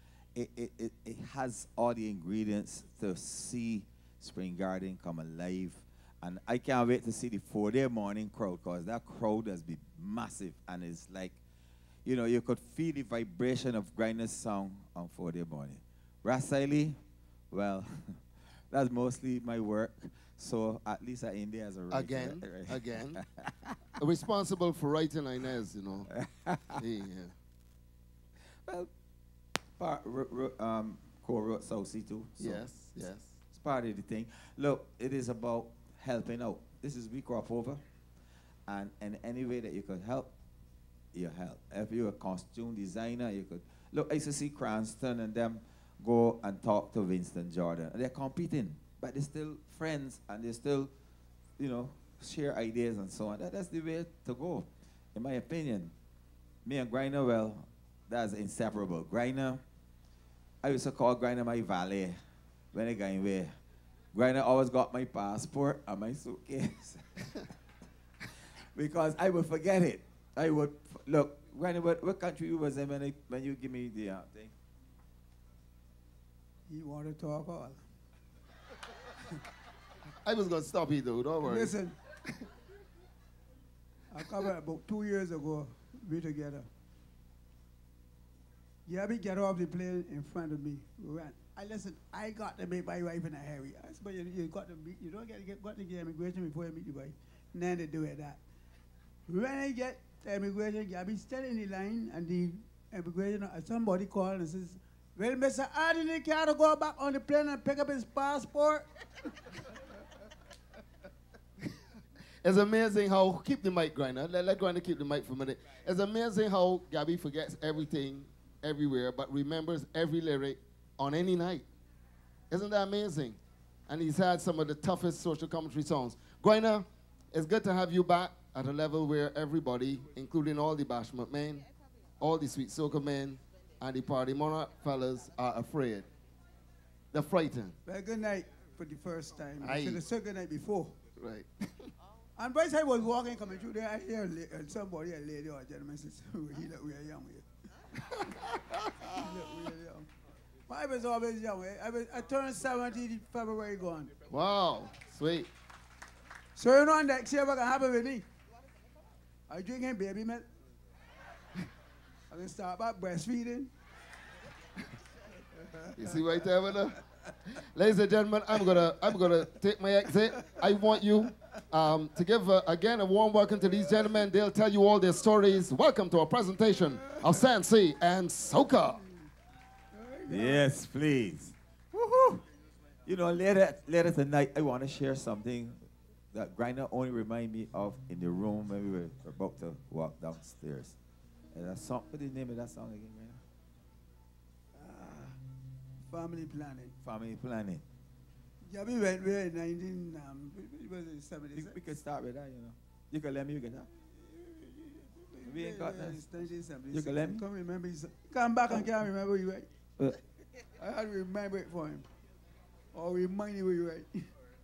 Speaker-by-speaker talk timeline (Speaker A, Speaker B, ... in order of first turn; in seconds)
Speaker A: 0.3-11.4, 12.0-17.0, 17.5-18.2, 18.7-23.8, 26.1-26.8, 29.8-32.6, 33.5-37.8, 38.7-40.3, 41.1-50.9, 51.6-55.9, 56.6-59.6, 60.6-62.2, 62.7-63.5, 64.1-67.0, 68.7-74.5, 180.3-182.3, 183.1-185.8, 186.3-190.9, 191.5-193.4, 197.0-197.8, 201.6-203.9, 205.5-206.2, 206.9-207.4
Speaker B: 21.9-23.2, 24.0-26.1, 26.7-27.3, 32.4-33.3, 80.2-81.7, 112.4-121.7, 122.5-131.7, 132.2-136.1, 137.1-137.7, 139.6-140.0, 141.2-141.9, 148.0-149.0, 154.3-155.5, 165.9-179.0
Speaker C: 76.7-77.8, 81.4-82.0, 84.1-86.7, 88.9-98.4, 99.3-108.8, 137.8-140.9, 142.4-147.4, 149.0-150.1, 150.7-154.1, 156.6-158.2, 159.5-160.4, 162.3-163.7, 179.9-180.7, 194.7-195.4, 196.1-196.9, 198.6-201.8, 204.2-209.7, 210.8-212.1, 212.9-214.3